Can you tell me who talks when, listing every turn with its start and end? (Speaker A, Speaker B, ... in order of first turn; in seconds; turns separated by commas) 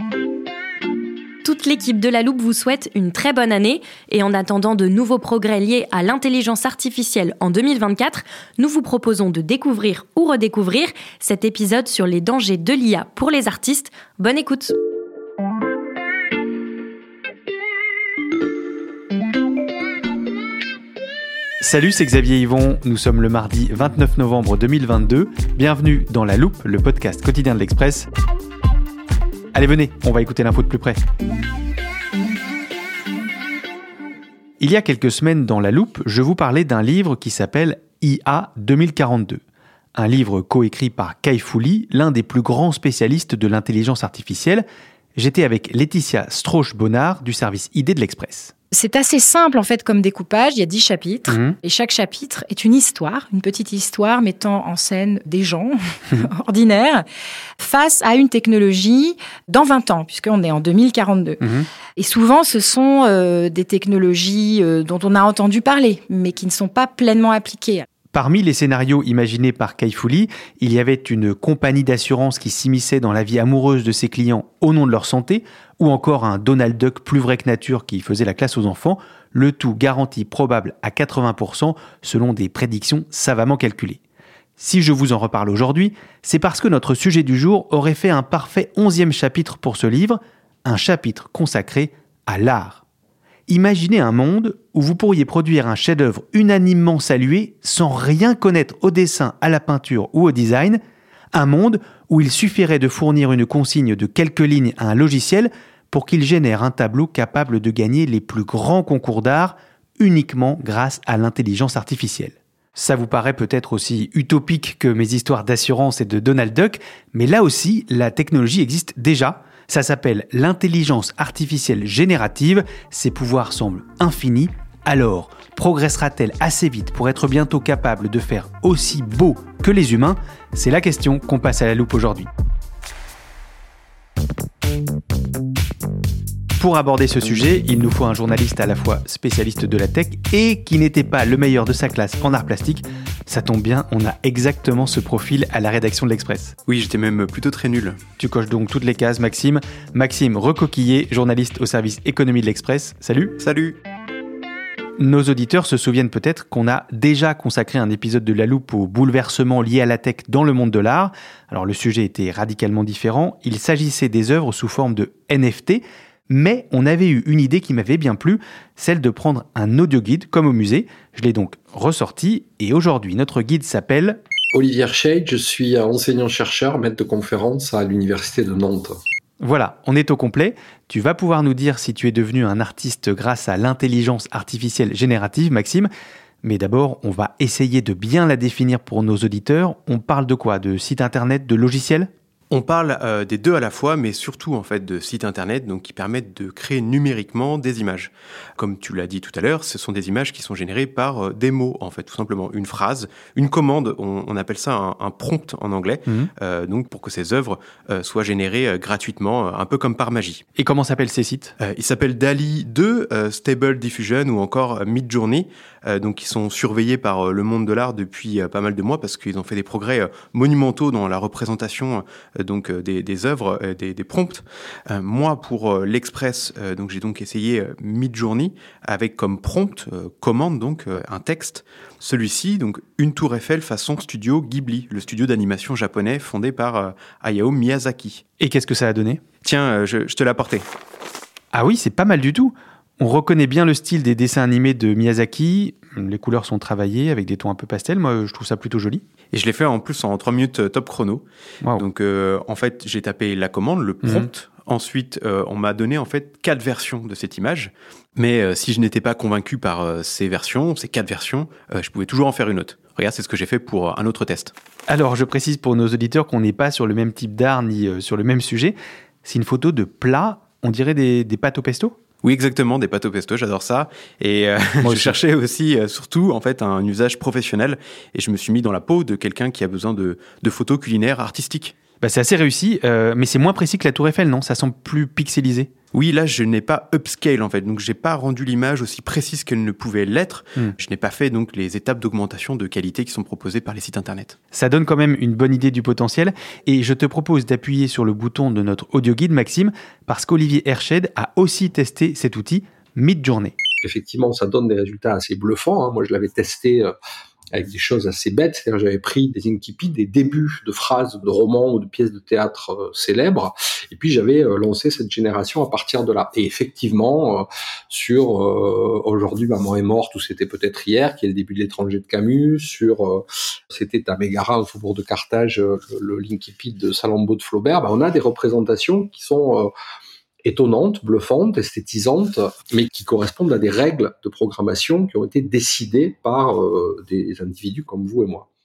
Speaker A: 1.4-14.8, Speaker B: 21.6-28.1, Speaker B: 29.5-31.0, Speaker B: 34.6-39.4, Speaker B: 40.0-44.6, Speaker B: 45.2-48.5, Speaker C: 48.7-57.0, Speaker B: 51.3-51.6, Speaker C: 57.6-61.4, Speaker B: 61.4-61.7, Speaker C: 62.0-67.9, Speaker B: 68.1-84.0, Speaker B: 84.6-92.8, Speaker B: 93.5-100.8, Speaker B: 101.3-132.3, Speaker B: 136.6-146.6, Speaker D: 146.7-148.0, Speaker B: 148.2-153.4, Speaker D: 153.4-153.8, Speaker B: 155.0-174.2, Speaker E: 174.5-179.0, Speaker B: 179.4-185.9, Speaker B: 186.4-192.1, Speaker D: 192.5-210.4, Speaker B: 210.6-211.5, Speaker D: 211.6-238.2, Speaker B: 238.4-239.2, Speaker D: 239.4-240.7, Speaker B: 241.5-249.0, Speaker D: 249.3-251.2, Speaker D: 251.8-264.5, Speaker B: 254.0-254.3, Speaker B: 264.9-272.0, Speaker D: 272.2-281.8, Speaker B: 274.8-275.2, Speaker B: 282.0-285.7, Speaker D: 285.9-294.4, Speaker B: 294.5-303.6, Speaker E: 303.8-306.9, Speaker E: 307.5-329.7, Speaker E: 330.4-338.5